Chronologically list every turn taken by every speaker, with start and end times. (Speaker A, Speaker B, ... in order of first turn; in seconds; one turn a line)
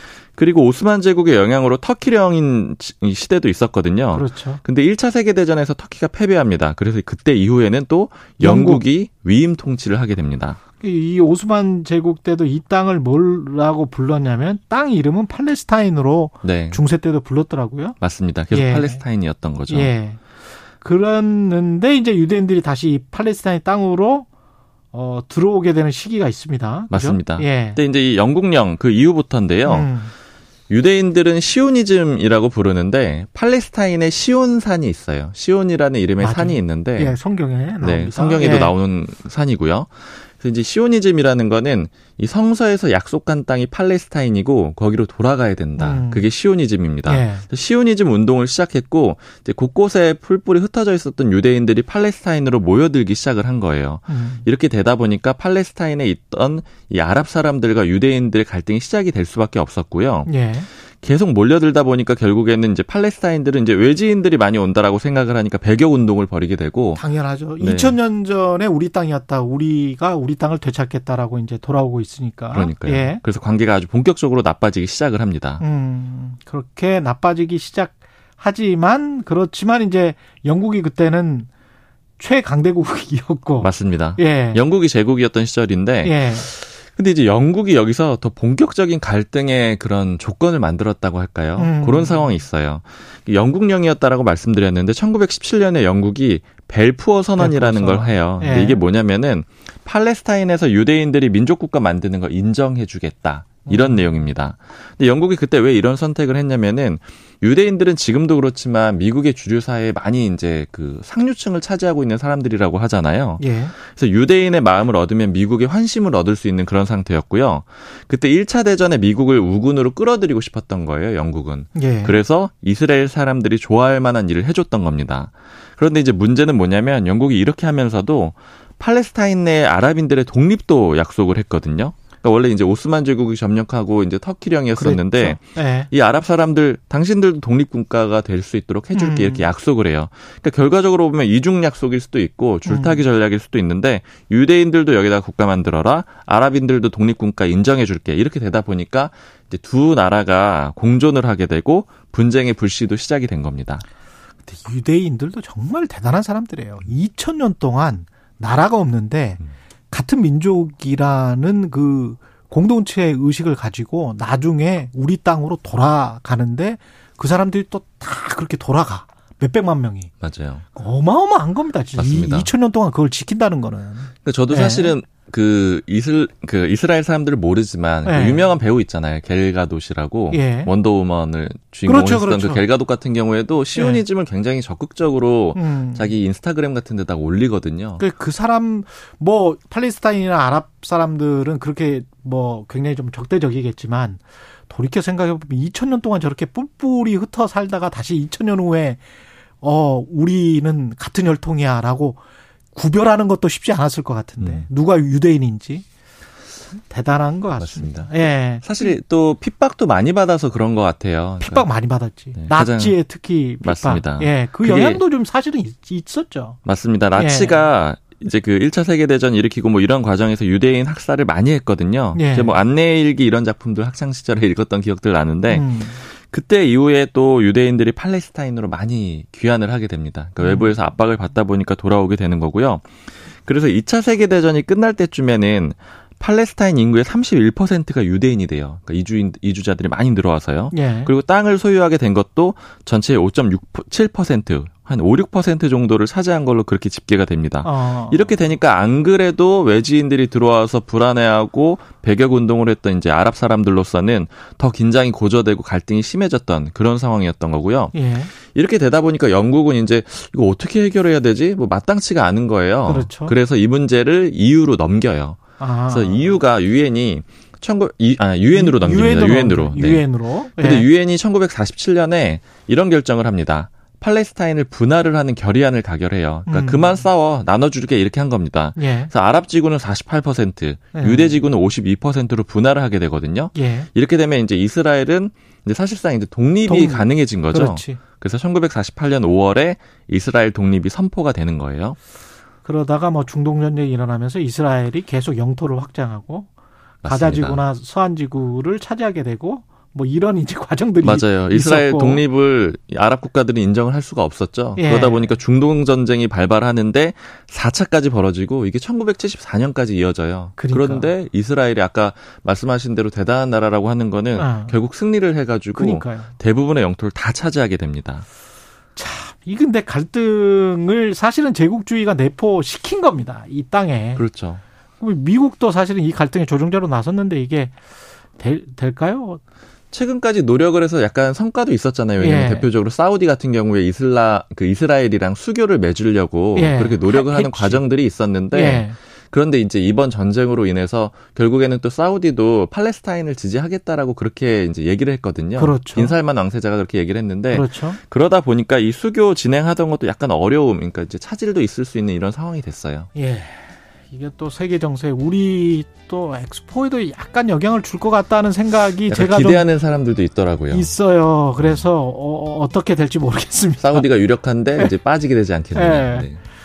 Speaker A: 0.3-10.6
Speaker B: 4.1-4.6
Speaker B: 8.4-8.8
Speaker B: 10.8-18.0
Speaker A: 16.4-16.8
Speaker A: 18.0-19.9
Speaker B: 18.5-19.0
Speaker B: 19.7-20.2
Speaker B: 20.8-24.3
Speaker B: 24.9-27.8
Speaker A: 26.9-29.9
Speaker B: 29.6-30.1
Speaker A: 30.7-37.2
Speaker B: 36.2-38.7
Speaker A: 37.8-60.3
Speaker B: 45.8-46.3
Speaker B: 47.0-47.5
Speaker B: 54.1-54.4
Speaker B: 60.2-60.7
Speaker A: 61.0-67.0
Speaker B: 67.0-73.2
Speaker A: 67.6-68.0
Speaker A: 72.5-75.6
Speaker B: 75.6-81.5
Speaker B: 82.2-84.6
Speaker A: 83.6-153.8
Speaker B: 86.0-86.5
Speaker B: 91.6-92.3
Speaker B: 97.4-98.8
Speaker B: 103.7-104.0
Speaker B: 113.4-113.7
Speaker B: 121.8-122.2
Speaker B: 134.8-135.9
Speaker B: 138.9-139.5
Speaker B: 142.6-143.0
Speaker B: 154.4-170.1
Speaker A: 170.2-170.6
Speaker B: 170.7-174.9
Speaker A: 171.9-172.5
Speaker A: 174.2-188.0
Speaker B: 178.0-178.5
Speaker B: 180.3-180.7
Speaker B: 181.8-182.6
Speaker B: 183.7-184.0
Speaker B: 185.5-186.2
Speaker B: 188.0-199.0
Speaker B: 199.6-202.2
Speaker B: 202.7-205.8
Speaker B: 206.9-208.9
Speaker A: 207.6-211.7
Speaker B: 211.4-216.6
Speaker A: 212.3-212.9
Speaker A: 213.6-215.0
Speaker A: 216.7-270.0
Speaker B: 217.1-217.6
Speaker B: 222.1-222.6
Speaker B: 225.5-226.0
Speaker B: 230.4-230.7
Speaker B: 240.7-241.1
Speaker B: 247.6-248.3
Speaker B: 257.9-258.3
Speaker B: 262.9-263.3
Speaker B: 265.6-266.4
Speaker B: 268.5-270.9
Speaker A: 270.6-292.0
Speaker B: 276.5-277.0
Speaker B: 278.8-279.1
Speaker B: 280.9-281.4
Speaker B: 283.5-283.9
Speaker B: 286.6-288.0
Speaker B: 292.6-296.5
Speaker A: 297.0-297.6
Speaker B: 297.0-302.2
Speaker A: 301.0-318.2
Speaker B: 304.8-305.3
Speaker B: 310.6-311.1
Speaker B: 314.4-314.7
Speaker B: 315.7-316.3
Speaker B: 318.9-324.2
Speaker A: 324.1-324.6
Speaker B: 325.0-327.7
Speaker B: 328.4-329.4
Speaker A: 329.9-353.1
Speaker B: 332.2-332.7
Speaker B: 336.5-337.8
Speaker B: 338.5-338.9
Speaker B: 345.6-346.1
Speaker B: 347.5-348.0
Speaker B: 353.1-359.6
Speaker A: 359.1-360.9
Speaker B: 360.7-364.1
Speaker A: 363.8-366.4
Speaker B: 365.7-366.3